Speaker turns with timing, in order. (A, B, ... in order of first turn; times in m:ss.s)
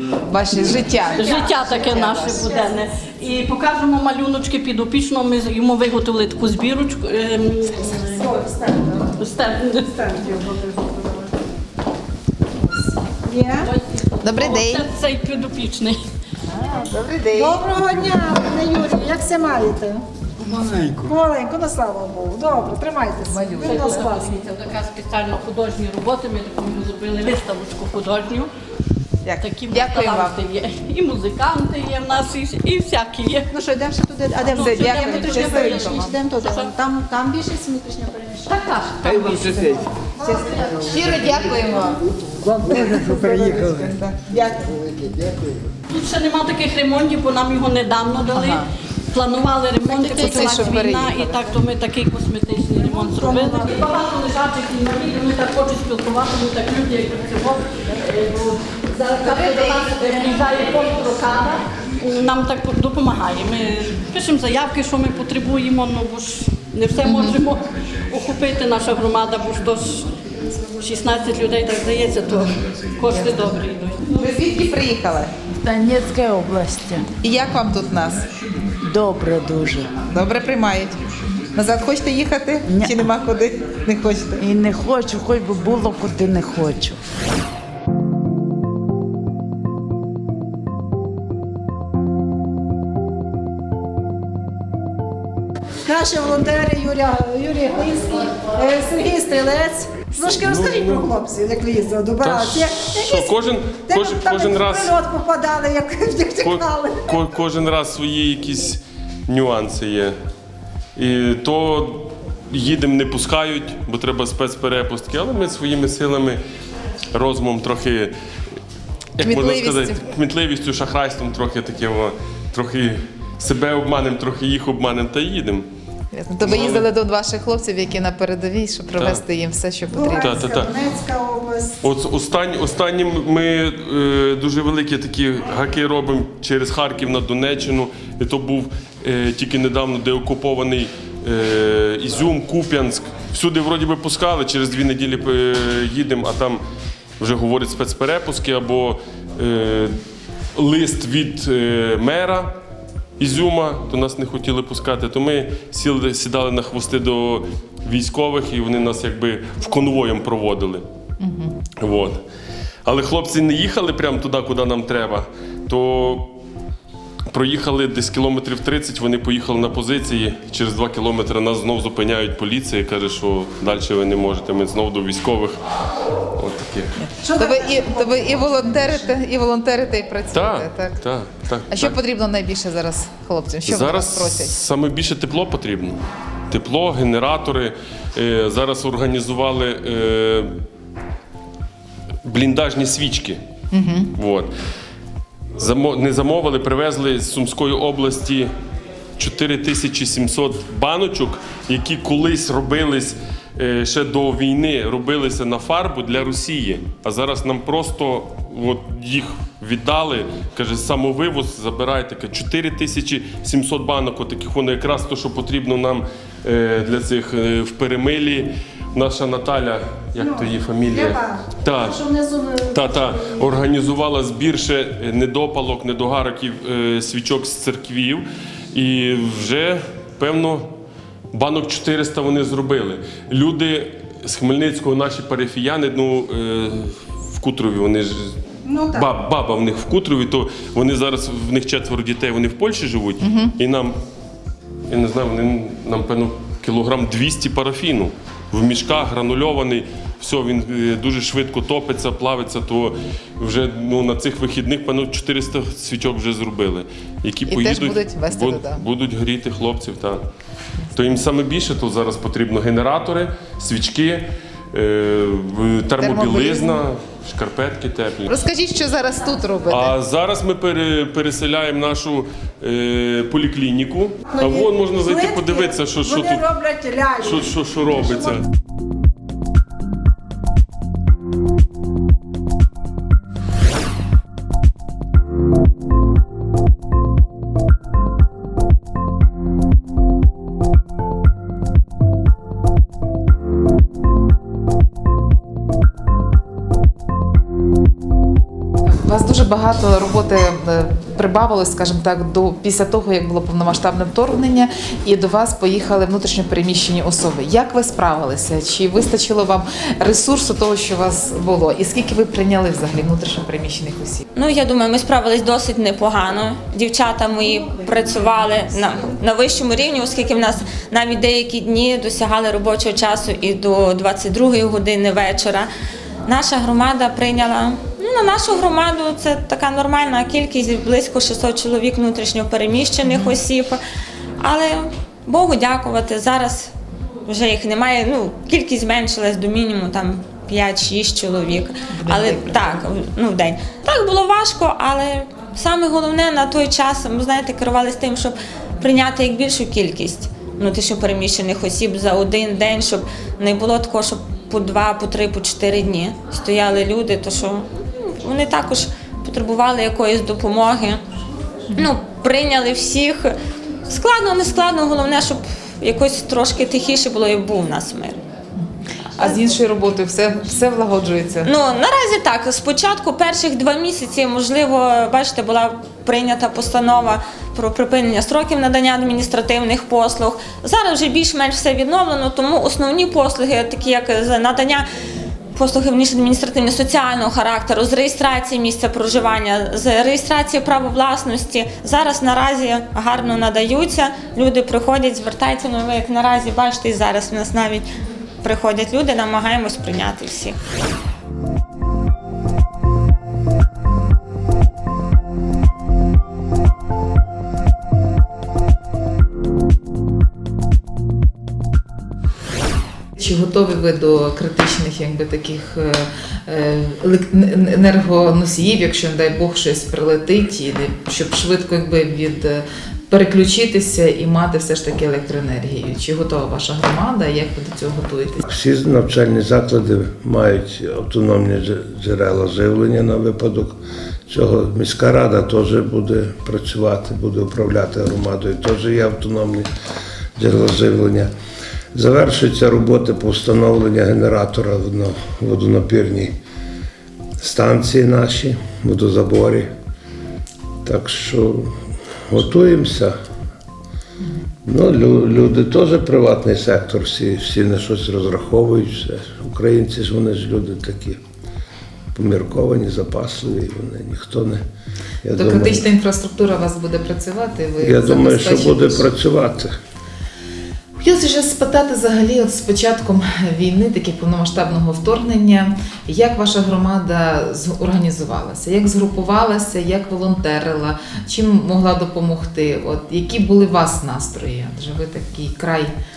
0:00.2-0:02.4 A
0:01.0-0:02.8 B
0:01.1-0:08.3 C
0:08.1-0:09.2 B
0:09.2-0:10.1 C
0:09.9-0:11.3 B
0:13.2-0:13.7 B
0:13.6-0:16.0 C
0:14.2-0:14.9 A
0:16.5-0:17.6 A
0:17.3-0:20.1 B
0:20.5-0:20.9 D
0:21.0-0:24.4 B
0:23.6-0:28.5 C
0:29.2-0:30.4 A
0:29.4-0:33.5 C
0:33.5-0:38.7 B
0:34.5-0:36.7 C
0:34.6-0:36.1 A
0:38.5-0:39.9 C
0:39.8-0:41.5 B
0:40.9-0:42.0 A
0:42.6-0:44.8 B
0:45.9-1:10.1 C
0:48.4-0:48.7 A
0:49.8-0:51.5 A
0:52.8-0:54.0 B
0:59.4-1:00.1 A
1:07.0-1:07.4 A
1:10.8-1:14.3 C
1:14.1-1:15.3 A
1:15.6-1:17.1 D
1:17.2-1:18.2 A
1:18.8-1:20.0 D
1:20.1-1:21.0 A
1:21.5-1:24.4 A
1:22.7-1:23.0 D
1:24.4-1:27.0 D
1:35.8-1:47.0 B
1:40.3-1:41.1 E
1:42.2-1:44.9 E
1:46.4-1:50.2 E
1:51.0-1:56.4 E
1:57.1-1:58.1 E
1:59.2-2:05.7 E
1:59.2-2:00.0 A
2:06.1-2:10.4 A
2:06.4-2:06.9 E
2:09.9-2:11.8 B
2:10.2-2:10.8 E
2:11.8-2:26.6 E
2:27.2-2:30.0 E
2:30.6-2:32.5 E
2:33.2-2:40.8 E
2:41.2-2:41.6 A
2:41.8-2:42.2 E
2:42.8-2:46.3 E
2:47.3-2:55.6 E
2:56.4-2:56.9 E
2:57.0-3:01.0 A
2:57.2-2:59.1 B
3:00.3-3:02.0 E
3:01.7-3:04.6 A
3:03.7-3:10.5 E
3:12.2-3:13.4 E
3:13.7-3:14.1 A
3:14.2-3:14.5 E
3:15.6-3:18.5 E
3:19.2-3:42.0 E
3:40.2-3:43.5 B
3:42.7-3:50.7 E
3:51.3-3:58.4 E
3:58.6-3:59.1 B
3:58.9-4:04.0 E
4:03.2-4:03.5 A
4:04.9-4:20.2 E
4:17.5-4:18.8 A
4:20.9-4:28.4 E
4:26.0-4:26.8 A
4:28.3-4:30.0 A
4:29.7-4:36.4 E
4:34.4-4:38.4 B
4:37.2-4:38.4 E
4:58.9-5:14.2 A
5:14.4-5:25.7 F
5:26.3-5:33.8 F
5:33.1-5:33.4 A
5:34.4-5:36.7 F
5:37.3-6:01.0 F
5:41.9-5:42.8 A
6:01.8-6:03.4 F
6:03.9-6:08.2 F
6:09.2-6:11.5 A
6:11.4-6:24.9 F
6:25.6-6:37.9 F
6:38.4-6:40.6 F
6:53.2-7:08.4 A
7:08.4-7:19.7 G
7:20.4-7:21.3 G
7:21.9-7:26.4 G
7:27.4-7:29.7 G
7:30.8-7:33.2 G
7:34.6-7:41.2 G
7:42.1-7:44.6 G
7:45.2-7:45.9 G
7:45.4-7:49.1 A
7:47.8-7:49.8 G
7:51.0-8:05.9 A